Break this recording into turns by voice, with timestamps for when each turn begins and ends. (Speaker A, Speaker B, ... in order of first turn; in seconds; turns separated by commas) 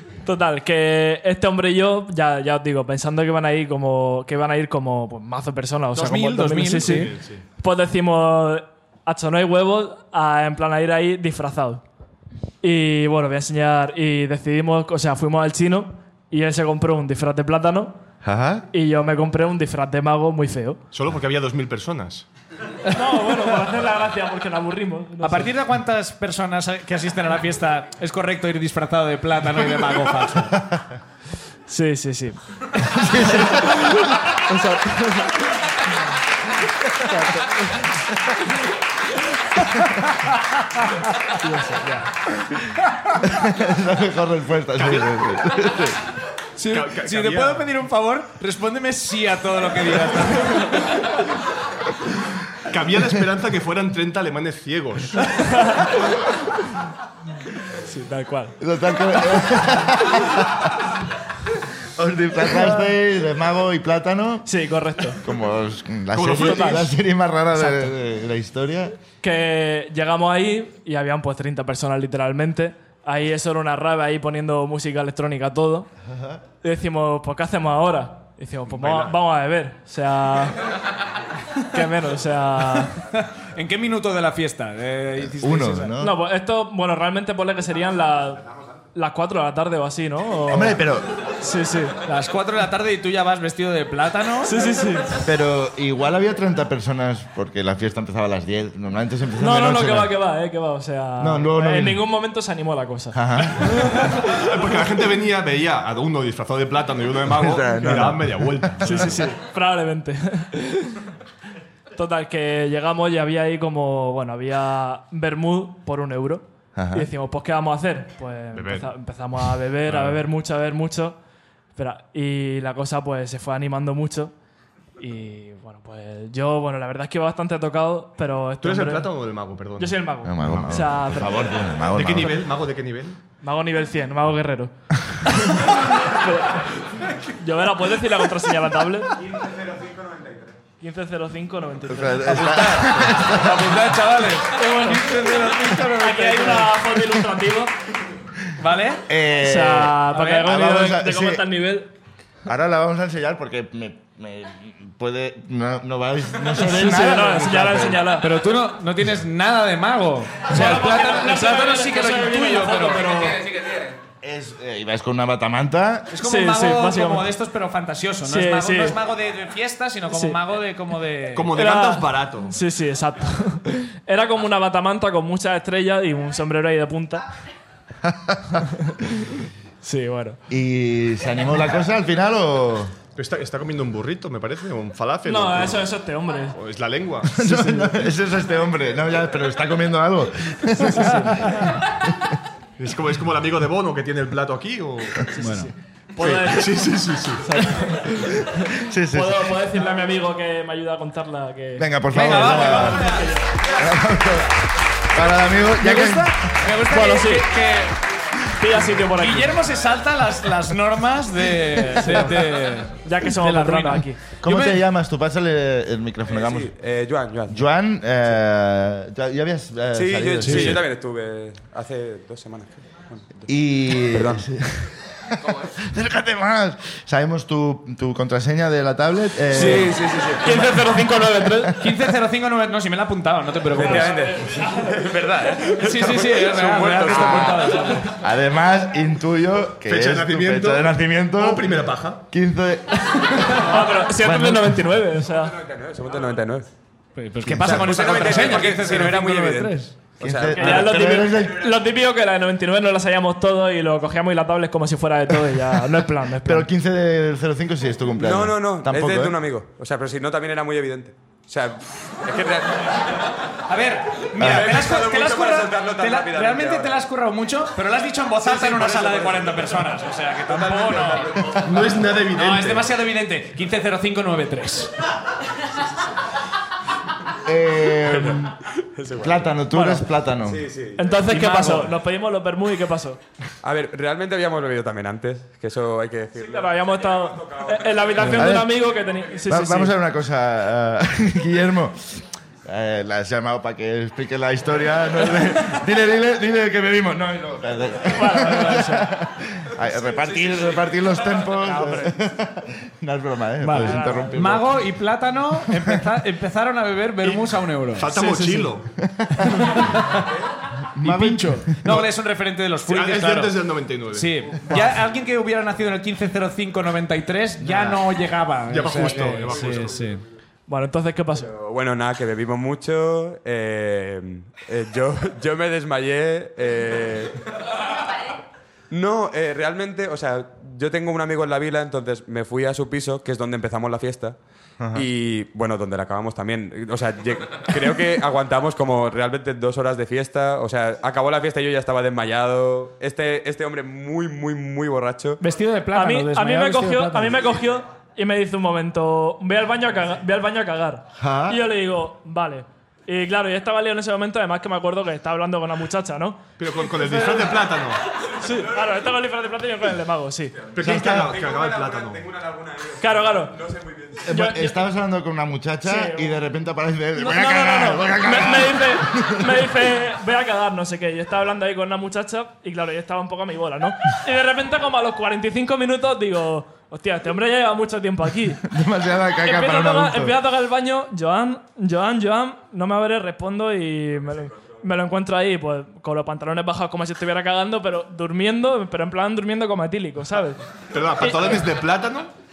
Speaker A: 0.2-11.8, Speaker B: 5.9-7.1, Speaker C: 6.8-7.4, Speaker A: 12.6-18.0, Speaker D: 18.2-18.7, Speaker A: 18.7-20.8, Speaker C: 20.9-22.3, Speaker A: 22.9-25.5, Speaker B: 25.2-30.7, Speaker A: 31.7-35.7, Speaker D: 32.8-34.0, Speaker A: 37.0-38.0, Speaker A: 41.3-42.1, Speaker D: 43.2-46.0, Speaker C: 44.8-45.1, Speaker B: 46.6-51.0, Speaker C: 46.7-47.7, Speaker C: 52.6-55.5, Speaker A: 55.4-55.9, Speaker A: 57.9-58.6, Speaker D: 58.6-61.0, Speaker D: 62.0-64.5, Speaker A: 64.5-65.2, Speaker D: 65.2-69.0, Speaker C: 66.1-66.9, Speaker A: 66.3-66.8, Speaker A: 67.6-67.9, Speaker A: 69.2-75.9, Speaker D: 76.1-76.4, Speaker A: 76.6-80.6, Speaker C: 78.7-79.2, Speaker A: 81.6-83.0, Speaker B: 83.1-86.0, Speaker D: 85.2-86.2, Speaker A: 86.0-90.8, Speaker D: 90.5-91.1, Speaker A: 91.4-92.0, Speaker B: 92.0-94.6, Speaker A: 94.4-95.2, Speaker D: 95.2-100.2, Speaker A: 99.4-104.2, Speaker D: 101.2-102.0, Speaker D: 103.1-103.9, Speaker C: 104.0-109.2, Speaker D: 107.3-109.1, Speaker A: 108.8-111.0, Speaker A: 112.0-121.2, Speaker D: 116.8-117.1, Speaker C: 118.5-118.9, Speaker C: 119.9-120.2, Speaker A: 121.8-124.3, Speaker A: 125.0-129.2, Speaker C: 128.6-130.8, Speaker A: 129.8-131.6, Speaker D: 130.2-132.4, Speaker C: 131.9-133.2, Speaker A: 133.4-139.2, Speaker E: 139.2-140.6, Speaker A: 140.8-142.6, Speaker D: 141.9-143.8, Speaker B: 142.4-146.8, Speaker A: 144.5-147.7, Speaker B: 148.6-149.1, Speaker D: 149.1-151.4, Speaker A: 149.4-151.9, Speaker B: 150.1-150.5, Speaker D: 152.5-158.1, Speaker A: 156.6-158.3, Speaker B: 158.2-163.3, Speaker A: 160.5-163.5, Speaker E: 163.4-163.9, Speaker D: 164.2-166.2, Speaker B: 166.1-171.6, Speaker A: 166.2-167.3, Speaker A: 168.2-169.0, Speaker A: 170.1-170.4, Speaker C: 171.3-172.6, Speaker A: 171.5-177.3, Speaker D: 178.0-178.7, Speaker A: 178.7-180.4, Speaker D: 180.5-182.9, Speaker C: 183.2-185.9, Speaker A: 185.3-186.6, Speaker C: 186.5-187.4, Speaker D: 187.3-192.3, Speaker A: 187.4-188.0, Speaker A: 190.8-191.6, Speaker C: 192.8-195.3, Speaker A: 195.3-203.7, Speaker B: 195.4-195.7, Speaker C: 196.2-197.7, Speaker D: 198.7-199.6, Speaker D: 201.8-203.1, Speaker B: 202.1-203.3, Speaker D: 203.6-206.5, Speaker B: 205.8-208.0, Speaker A: 205.9-207.6, Speaker A: 208.5-209.7, Speaker B: 209.0-214.8, Speaker D: 211.8-212.2, Speaker A: 212.0-212.4, Speaker A: 213.0-214.3, Speaker D: 214.4-216.7, Speaker E: 216.3-217.8, Speaker D: 217.5-220.8, Speaker E: 219.9-224.5, Speaker B: 220.4-220.8, Speaker D: 223.5-230.0, Speaker B: 229.5-229.9, Speaker E: 229.6-230.7, Speaker A: 230.4-231.8, Speaker B: 231.8-234.2, Speaker E: 233.7-238.0, Speaker A: 233.8-235.0, Speaker B: 235.6-238.1, Speaker D: 237.1-245.0, Speaker C: 239.8-242.2, Speaker A: 243.6-245.6, Speaker E: 245.2-246.7, Speaker B: 247.2-249.9, Speaker E: 247.5-251.2, Speaker C: 247.6-249.1, Speaker D: 250.2-251.7, Speaker A: 250.5-256.7, Speaker D: 256.4-259.4, Speaker E: 258.2-263.3, Speaker B: 263.7-271.3, Speaker E: 264.3-267.1, Speaker D: 264.4-264.7, Speaker E: 268.4-271.9, Speaker C: 271.6-272.9, Speaker B: 272.3-274.9, Speaker D: 277.4-278.6, Speaker E: 278.1-281.2, Speaker D: 279.2-280.7, Speaker A: 281.0-283.2, Speaker B: 281.3-281.9, Speaker E: 283.6-289.4, Speaker A: 286.4-289.9, Speaker D: 288.2-288.8, Speaker D: 289.5-304.8, Speaker A: 298.1-299.1, Speaker E: 300.1-301.5, Speaker A: 301.6-302.1, Speaker B: 303.6-308.2, Speaker A: 303.8-304.4, Speaker D: 305.7-306.1, Speaker C: 307.2-308.9, Speaker A: 308.1-308.7, Speaker D: 309.0-309.7, Speaker B: 309.6-310.1, Speaker D: 310.9-311.9, Speaker B: 311.0-313.6, Speaker C: 312.9-315.0, Speaker B: 314.1-320.2, Speaker C: 317.6-318.0, Speaker C: 318.7-320.0, Speaker A: 320.7-321.5, Speaker E: 321.4-327.4, Speaker E: 328.9-334.4, Speaker D: 334.8-335.1, Speaker E: 334.9-345.4, Speaker B: 345.4-347.4, Speaker A: 345.9-357.7, Speaker D: 351.1-351.6, Speaker C: 356.6-358.0, Speaker E: 358.3-359.1, Speaker A: 358.3-360.7, Speaker E: 360.7-364.4, Speaker C: 360.7-362.3, Speaker D: 360.8-361.4, Speaker A: 363.0-363.6, Speaker D: 364.3-369.8, Speaker A: 364.3-364.7, Speaker A: 365.9-366.3, Speaker A: 367.2-378.6, Speaker D: 378.6-380.4, Speaker A: 379.4-390.6, Speaker C: 390.9-392.3, Speaker A: 391.2-391.7